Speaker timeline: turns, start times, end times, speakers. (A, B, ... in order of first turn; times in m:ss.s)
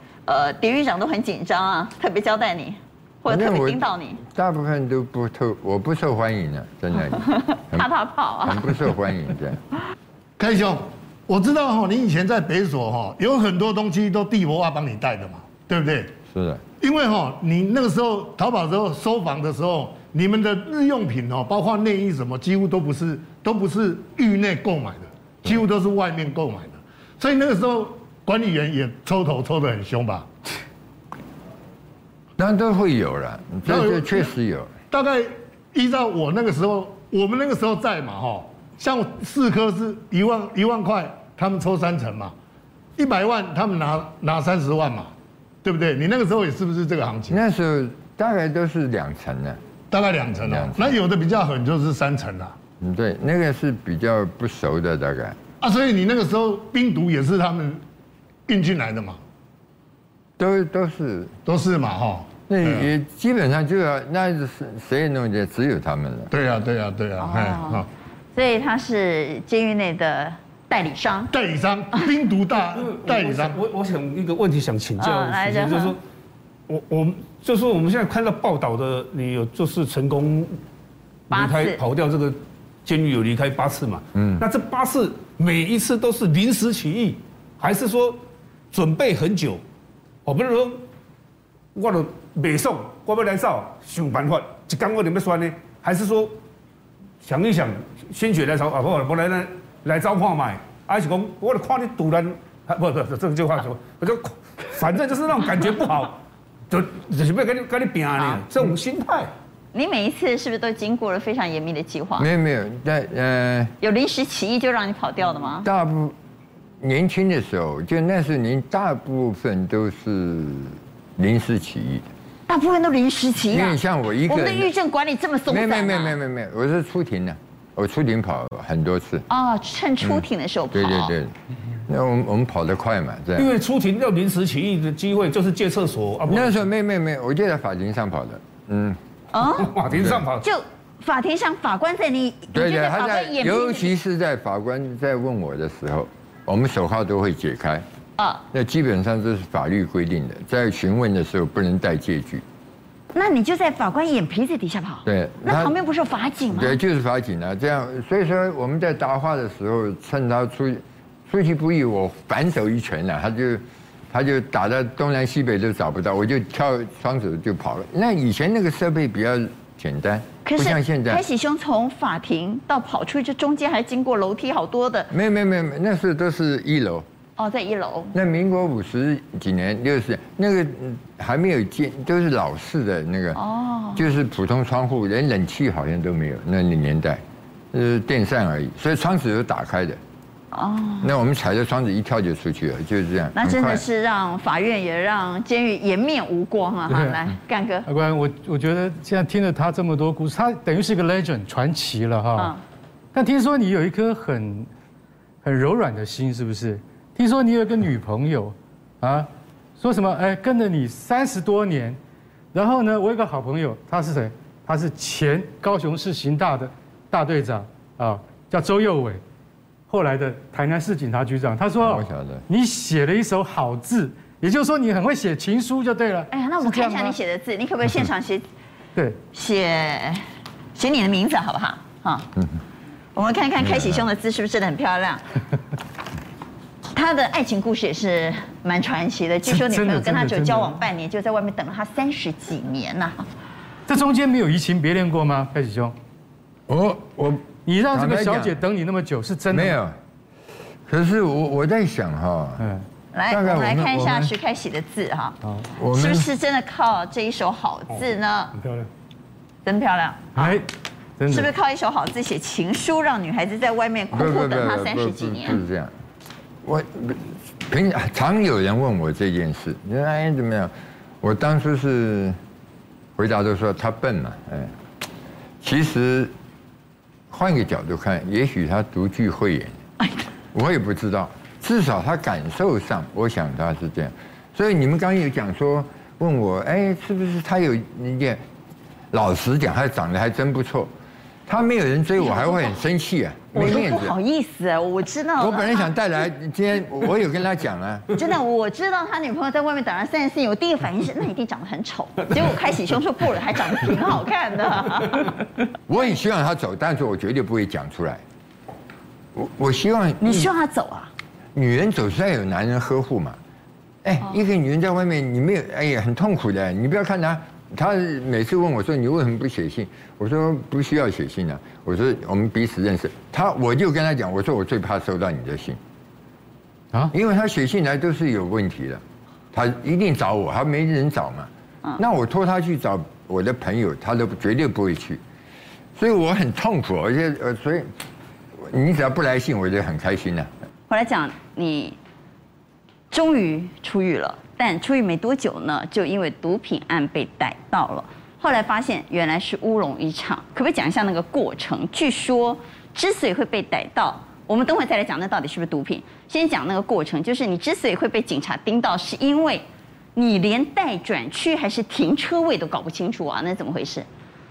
0:00.3-0:04.2 A
0:03.3-0:07.9 B
0:07.2-0:08.8 A
0:08.4-0:09.6 B
0:10.4-0:16.1 C
0:16.3-0:16.6 B
0:16.8-0:30.3 C
0:32.4-0:34.7 B
0:33.7-0:34.3 C
0:34.9-0:42.4 C
0:43.0-0:45.1 C
0:45.6-0:47.4 C
0:47.3-0:49.6 B
0:49.9-0:52.5 C
0:50.4-0:50.9 B
0:52.8-0:55.4 B
0:55.6-0:57.8 C
0:58.5-0:59.2 C
1:00.4-1:01.3 B
1:01.5-1:02.9 C
1:02.5-1:06.3 B
1:06.3-1:07.9 C
1:07.2-1:11.3 A
1:11.3-1:13.6 C
1:12.7-1:16.0 D
1:15.0-1:16.0 A
1:16.7-1:20.6 D
1:21.3-1:28.2 D
1:21.3-1:21.8 A
1:24.2-1:24.4 B
1:28.7-1:29.6 D
1:30.3-1:30.8 D
1:31.8-1:36.4 D
1:37.2-1:49.3 D
1:49.7-1:52.3 A
1:52.2-1:53.7 B
1:53.8-1:55.7 A
1:55.6-1:56.2 B
1:56.8-2:02.1 B
2:02.5-2:06.2 A
2:03.5-2:04.7 B
2:05.5-2:09.2 B
2:09.3-2:11.2 A
2:10.0-2:11.3 B
2:11.9-2:13.5 B
2:13.4-2:16.6 D
2:16.3-2:19.0 B
2:19.3-2:19.7 A
2:19.6-2:20.5 D
2:19.9-2:20.2 B
2:20.4-2:23.9 A
2:22.5-2:27.8 B
2:28.2-2:28.4 A
2:28.5-2:32.4 B
2:33.1-2:36.8 A
2:35.1-2:35.7 B
2:36.5-2:51.2 B
2:50.4-2:55.1 A
2:55.1-2:57.0 B
2:57.4-2:58.2 A
2:58.1-3:03.4 B
3:03.4-3:04.1 A
3:04.0-3:07.2 B
3:07.7-3:10.0 B
3:10.5-3:11.2 A
3:11.0-3:13.8 B
3:13.4-3:17.9 A
3:16.9-3:17.2 E
3:17.8-3:22.6 E
3:22.4-3:22.6 A
3:23.1-3:24.7 E
3:25.4-3:32.0 E
3:32.5-3:39.2 E
3:39.9-3:47.2 E
3:41.8-3:42.4 B
3:46.3-3:48.4 A
3:49.3-3:50.2 A
3:50.8-3:52.3 A
3:53.2-3:55.2 A
3:53.6-3:54.0 B
3:56.9-4:03.2 A
3:59.5-4:00.8 E
4:03.9-4:05.9 E
4:06.7-4:08.6 B
4:07.6-4:09.8 E
4:09.5-4:10.0 B
4:10.9-4:12.6 B
4:12.6-4:12.8 E
4:13.1-4:15.4 A
4:13.3-4:14.3 B
4:15.8-4:16.3 B
4:15.9-4:18.6 A
4:19.6-4:20.6 A
4:20.4-4:21.5 E
4:21.3-4:25.6 A
4:24.1-4:25.9 B
4:26.6-4:32.4 B
4:33.2-4:34.7 B
4:35.6-4:36.3 B
4:37.3-4:39.8 B
4:40.5-4:48.4 B
4:49.1-4:50.9 B
4:51.5-4:54.2 B
4:52.2-4:52.8 A
4:53.5-4:55.9 A
4:55.4-4:58.2 B
4:58.1-5:05.4 A
5:05.9-5:08.2 B
5:09.4-5:10.5 B
5:10.2-5:11.1 A
5:11.6-5:13.4 B
5:14.0-5:25.8 B
5:27.1-5:29.0 B
5:29.5-5:35.2 B
5:36.0-5:37.9 B
5:38.6-5:40.5 B
5:40.9-5:42.0 A
5:43.1-6:04.1 A